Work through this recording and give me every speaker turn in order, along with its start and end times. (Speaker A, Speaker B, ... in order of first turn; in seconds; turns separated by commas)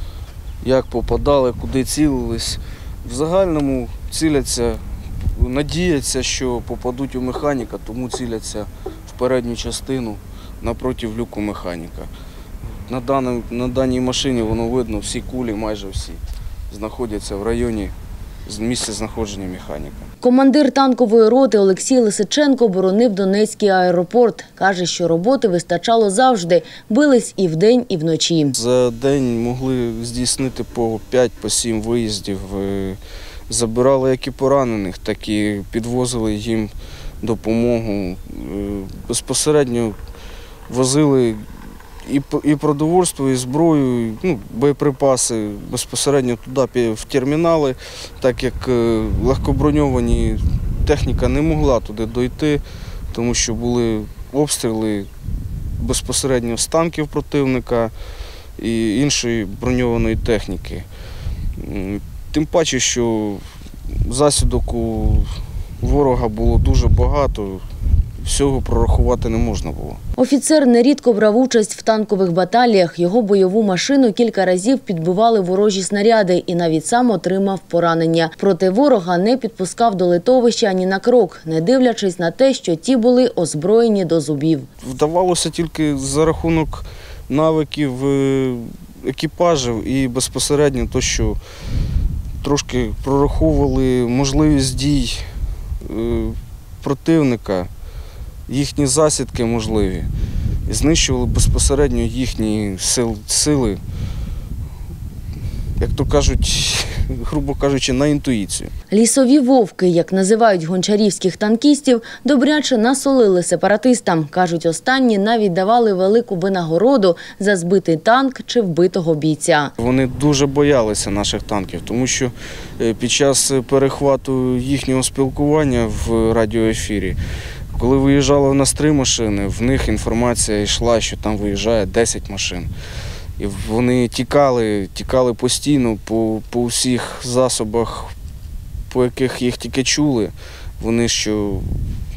Speaker A: 0.6-12.1, Speaker A: 12.9-17.9, Speaker A: 18.5-20.1, Speaker B: 20.2-28.6, Speaker A: 28.6-40.0, Speaker A: 40.7-41.4, Speaker A: 42.0-52.6, Speaker A: 53.1-55.1, Speaker A: 55.8-57.9, Speaker A: 58.6-60.9, Speaker A: 61.6-63.4, Speaker A: 64.0-67.6, Speaker A: 68.2-70.0, Speaker B: 70.2-84.7, Speaker A: 84.8-91.4, Speaker A: 92.4-95.2, Speaker A: 95.8-97.7, Speaker A: 98.5-100.1, Speaker A: 100.7-103.8, Speaker A: 105.8-108.7, Speaker B: 108.9-119.7, Speaker A: 119.8-127.2, Speaker A: 127.7-132.7, Speaker A: 133.4-138.1, Speaker A: 138.9-141.8